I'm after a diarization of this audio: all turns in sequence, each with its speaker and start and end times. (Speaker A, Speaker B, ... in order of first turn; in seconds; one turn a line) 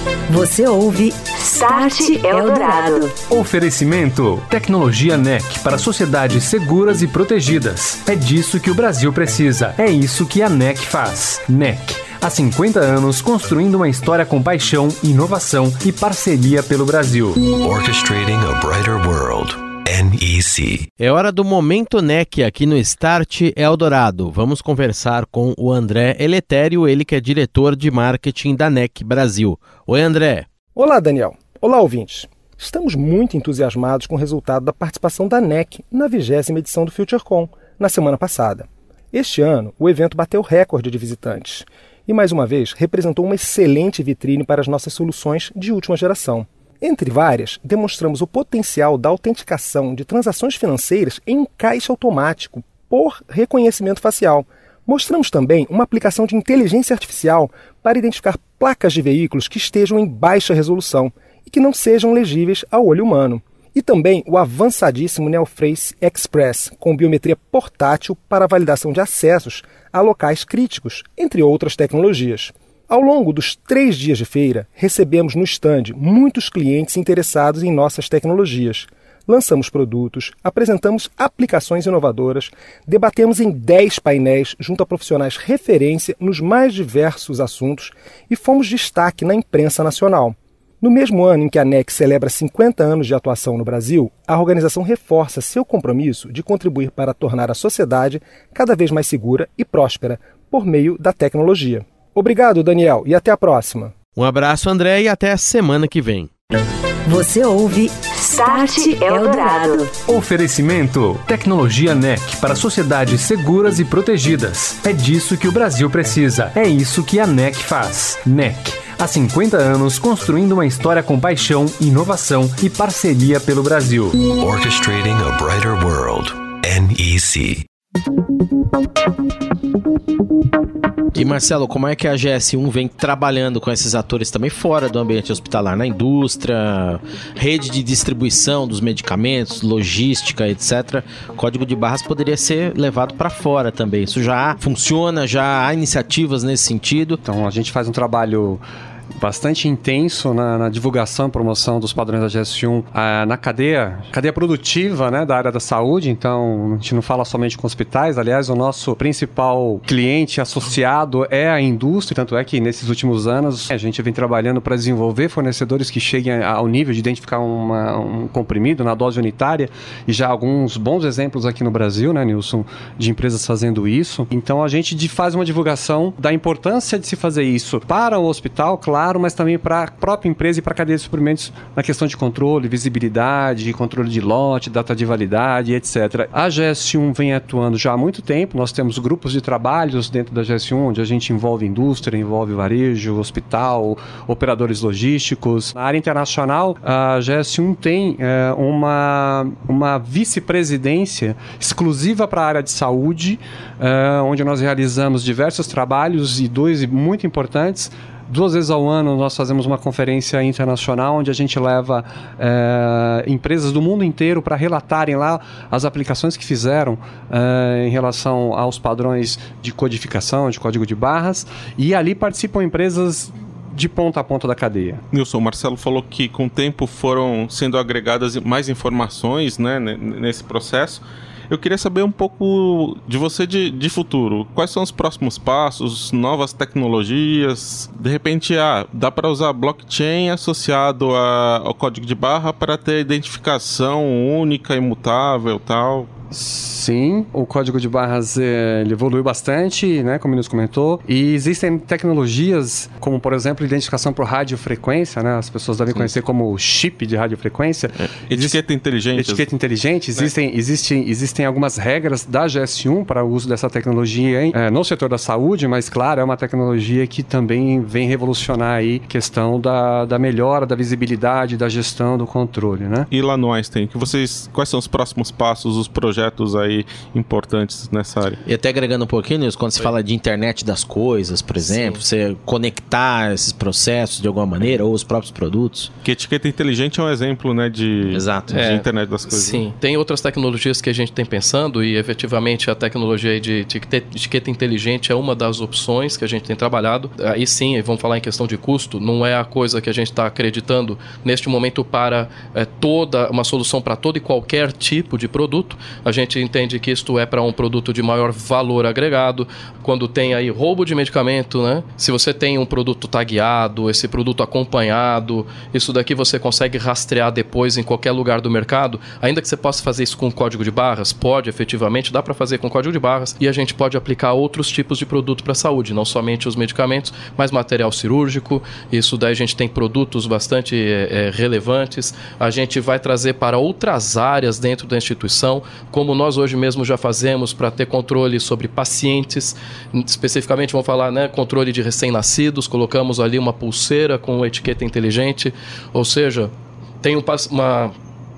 Speaker A: 0.3-3.1
Speaker B: 3.3-17.4
Speaker C: 17.4-20.9
Speaker D: 21.0-30.5
Speaker E: 30.7-103.9
Speaker D: 104.2-106.3
Speaker A: 107.0-109.9
Speaker B: 110.1-124.1
Speaker C: 124.2-127.7
Speaker D: 131.1-147.2
Speaker F: 147.2-148.6
Speaker F: 149.2-225.0
Speaker G: 225.1-246.1
Speaker F: 246.3-258.6
Speaker G: 258.1-259.5
Speaker F: 259.1-273.1
Speaker G: 273.1-278.4
Speaker D: 278.4-285.9
Speaker H: 281.6-282.0
Speaker G: 286.0-289.6
Speaker D: 288.1-288.7
Speaker H: 288.5-347.9